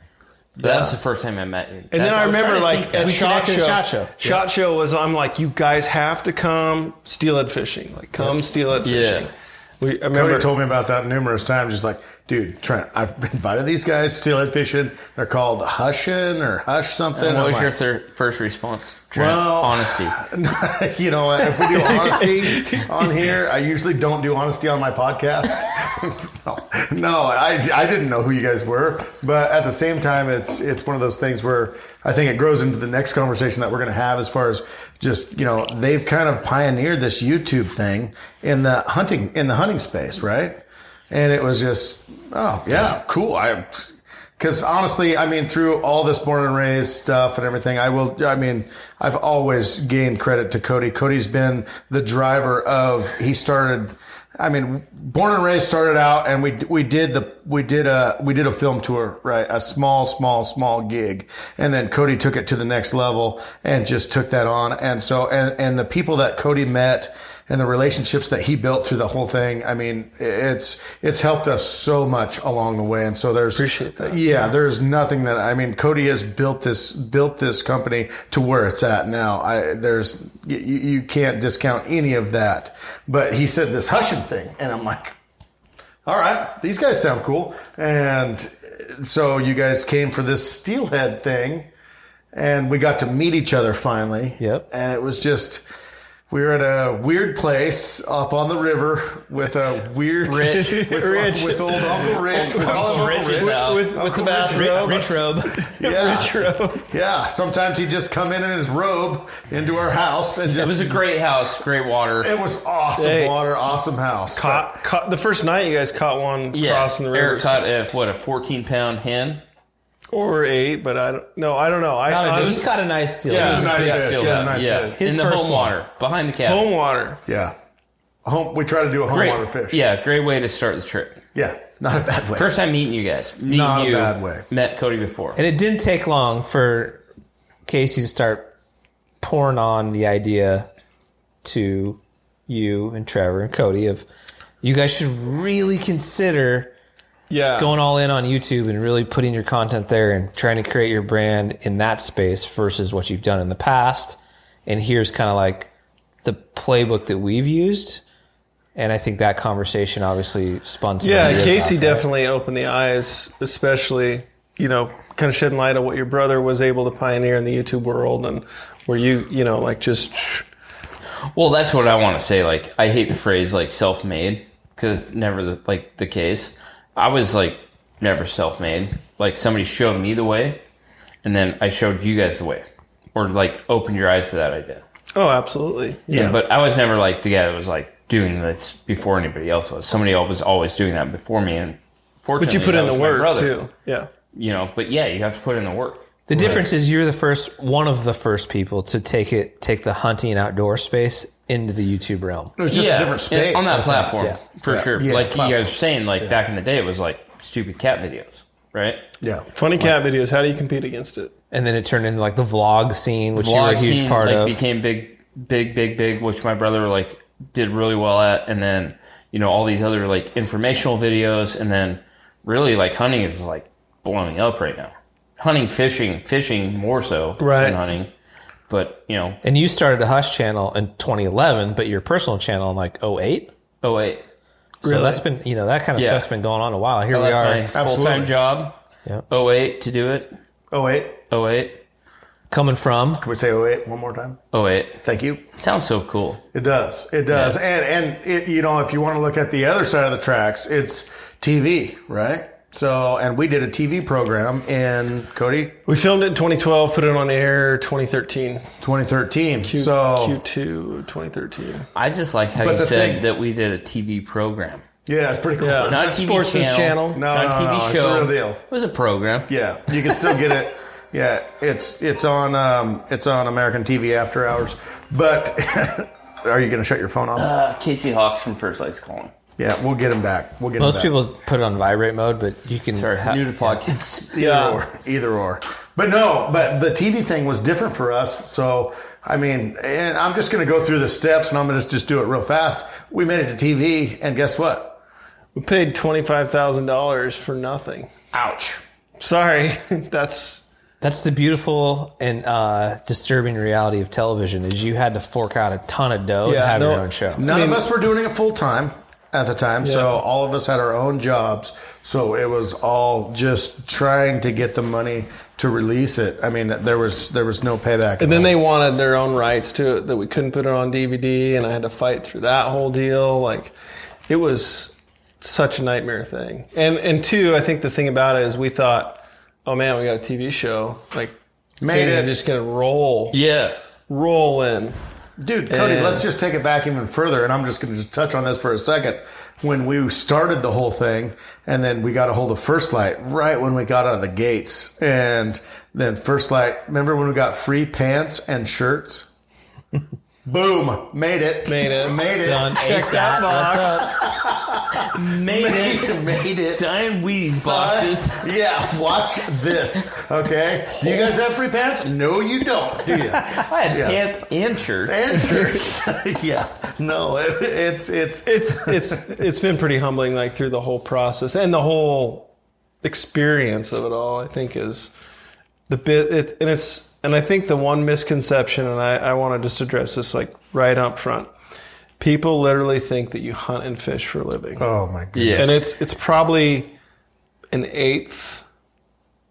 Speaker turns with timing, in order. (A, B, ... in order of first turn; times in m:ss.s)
0:00.6-0:03.2 A
0:00.6-0:00.9 B
0:01.9-0:10.5 B
0:03.0-0:04.4 C
0:08.8-0:09.3 A
0:10.1-0:17.7 D
0:17.1-0:20.2 A
0:19.1-1:25.2 D
0:21.6-0:22.9 B
1:13.6-1:14.2 B
1:26.0-1:31.7 D
1:32.3-1:35.6 D
1:34.4-1:34.7 C
1:36.3-1:44.4 D
1:40.2-1:40.9 A
1:40.4-1:46.8 B
1:42.0-1:44.9 A
1:44.4-1:45.7 C
1:45.8-1:51.0 D
1:50.5-1:52.3 A
1:52.2-1:54.7 D
1:53.0-1:53.3 B
1:54.3-1:57.6 B
1:56.5-1:59.4 A
2:00.1-2:02.7 B
2:02.0-2:04.3 C
2:03.3-2:05.0 B
2:03.3-2:04.9 D
2:03.4-2:06.7 A
2:05.0-2:05.8 C
2:06.4-2:07.2 B
2:07.3-2:07.5 D
2:08.2-2:09.8 D
2:09.1-2:11.2 A
2:11.3-2:12.5 D
2:12.3-2:15.4 A
2:13.5-2:14.4 D
2:15.4-2:17.0 C
2:17.6-2:18.5 C
2:19.2-2:20.7 C
2:21.4-2:24.0 C
2:24.6-2:26.7 C
2:27.3-2:27.7 B
2:27.6-2:35.7 C
2:36.2-2:38.0 C
2:38.7-2:42.0 C
2:41.0-2:50.4 B
2:51.3-3:00.6 A
3:01.2-3:04.8 A
3:05.1-3:06.4 B
3:06.1-3:06.4 D
3:06.1-3:13.6 A
3:12.4-3:14.1 B
3:14.3-3:16.1 A
3:16.3-3:22.5 C
3:16.3-3:16.6 D
3:22.6-3:25.7 D
3:22.7-3:29.0 A
3:29.2-3:29.4 D
3:29.5-3:31.3 B
3:31.5-3:34.6 C
3:33.4-3:48.1 A
3:47.4-3:47.8 B
3:48.7-3:49.4 A
3:49.4-3:53.5 C
3:53.8-3:54.2 A
3:54.8-3:55.2 B
3:54.8-3:57.7 C
3:56.0-3:56.3 A
3:57.1-3:58.8 A
3:57.7-3:58.3 D
3:59.3-4:00.4 A
4:00.7-4:01.2 D
4:01.3-4:01.8 A
4:02.5-4:03.2 C
4:03.2-4:04.4 D
4:04.5-4:05.0 A
4:05.0-4:05.4 D
4:05.5-4:06.4 A
4:06.5-4:15.8 D
4:07.3-4:07.6 A
4:15.8-4:18.7 B
4:18.8-4:20.4 D
4:19.6-4:21.9 B
4:21.9-4:24.8 A
4:22.6-4:23.2 D
4:25.0-4:26.2 D
4:25.6-4:27.2 B
4:25.9-4:30.3 A
4:27.1-4:28.6 D
4:29.5-4:37.5 D
4:37.4-4:39.3 A
4:39.6-4:41.1 D
4:40.8-4:43.8 C
4:42.9-4:44.4 A
4:44.3-4:55.0 D
4:44.4-4:44.8 B
4:55.5-4:58.1 B
4:58.3-4:58.8 A
4:59.2-5:00.6 B
5:01.0-5:07.4 C
5:06.4-5:07.8 B
5:07.4-5:18.5 D
5:09.8-5:10.1 B
5:18.2-5:23.7 B
5:24.3-5:31.3 B
5:31.8-5:32.3 D
5:31.9-5:33.4 B
5:33.3-5:33.8 A
5:34.1-5:35.0 B
5:35.4-5:49.3 D
5:35.7-5:36.1 B
5:50.4-5:52.8 D
5:51.6-5:54.1 B
5:52.4-5:54.2 C
5:54.0-5:56.8 D
5:55.0-5:58.5 A
5:57.4-6:04.2 D
6:00.9-6:01.3 A
6:03.5-6:05.7 A
6:05.0-6:09.2 D
6:08.4-6:12.5 B
6:13.0-6:15.1 B
6:15.9-6:21.5 B
6:22.2-6:24.8 B
6:24.8-6:25.8 D
6:25.3-6:25.8 A
6:25.6-6:26.9 B
6:27.7-6:28.6 B